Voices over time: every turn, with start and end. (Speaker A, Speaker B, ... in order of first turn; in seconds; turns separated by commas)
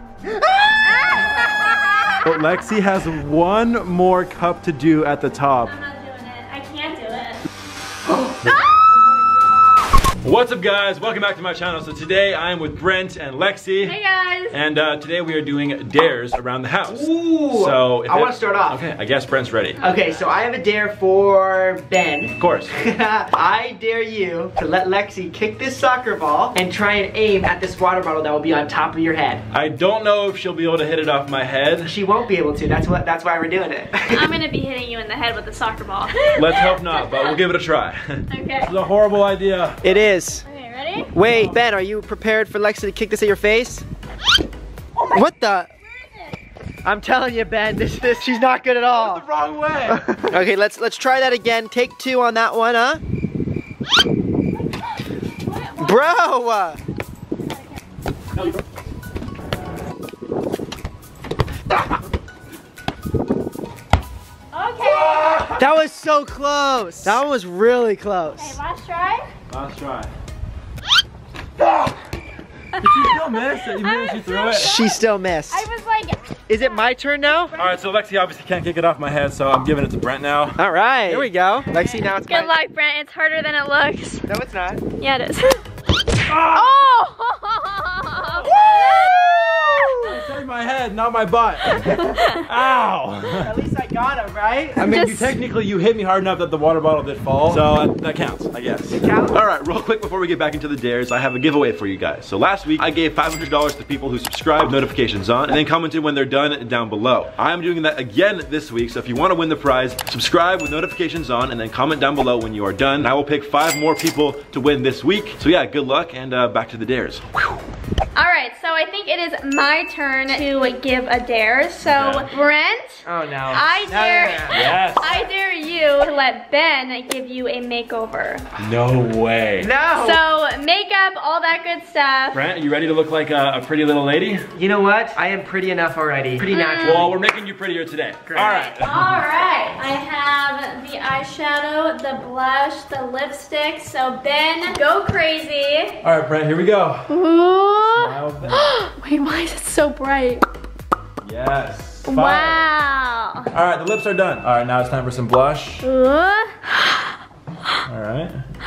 Speaker A: 0.3-1.1, Speaker B: 0.8-2.4, Speaker C: 2.2-5.7, Speaker B: 5.6-7.4, Speaker A: 8.1-8.5, Speaker B: 8.4-8.8, Speaker C: 10.2-13.9, Speaker B: 13.8-14.6, Speaker C: 14.5-19.8, Speaker A: 16.9-18.8, Speaker B: 19.8-20.2, Speaker A: 19.8-29.4, Speaker C: 22.4-22.7, Speaker C: 29.5-31.9, Speaker A: 31.8-34.3, Speaker B: 34.1-37.4, Speaker C: 36.3-39.8, Speaker B: 38.3-38.7, Speaker A: 39.8-40.4, Speaker B: 40.4-41.1, Speaker A: 41.1-43.8, Speaker C: 41.2-41.6, Speaker A: 45.1-45.7, Speaker B: 45.9-46.4, Speaker A: 46.8-49.2, Speaker C: 48.9-50.1, Speaker A: 49.9-53.0, Speaker B: 55.4-56.1, Speaker A: 55.8-56.8, Speaker B: 64.5-65.4, Speaker C: 64.8-65.7, Speaker A: 65.5-68.6, Speaker B: 68.3-69.3, Speaker C: 69.5-70.1, Speaker B: 72.8-77.8, Speaker C: 72.8-74.7, Speaker A: 74.5-75.7, Speaker A: 76.5-77.5, Speaker C: 77.5-81.3, Speaker A: 80.6-82.5, Speaker B: 81.6-84.3, Speaker A: 84.3-84.8, Speaker B: 85.0-85.6, Speaker C: 86.3-86.7, Speaker B: 86.5-90.1, Speaker C: 88.4-89.0, Speaker A: 88.7-90.1, Speaker C: 90.0-93.5, Speaker B: 91.6-92.4, Speaker A: 93.3-94.9, Speaker C: 94.8-117.5, Speaker B: 94.8-95.3, Speaker A: 98.9-99.4, Speaker B: 118.2-128.4, Speaker C: 121.8-122.3, Speaker A: 123.0-124.6, Speaker C: 124.5-125.2, Speaker C: 128.6-129.7, Speaker A: 129.6-130.2, Speaker B: 129.9-132.4, Speaker C: 132.3-134.5, Speaker A: 134.5-137.2, Speaker B: 136.5-137.1, Speaker C: 136.8-139.2, Speaker A: 138.3-138.7, Speaker B: 138.4-146.0, Speaker C: 146.0-147.1, Speaker B: 147.1-150.4, Speaker C: 147.8-148.7, Speaker C: 151.2-152.7, Speaker B: 152.1-153.5, Speaker C: 153.5-155.8, Speaker B: 155.8-157.1, Speaker C: 157.8-158.4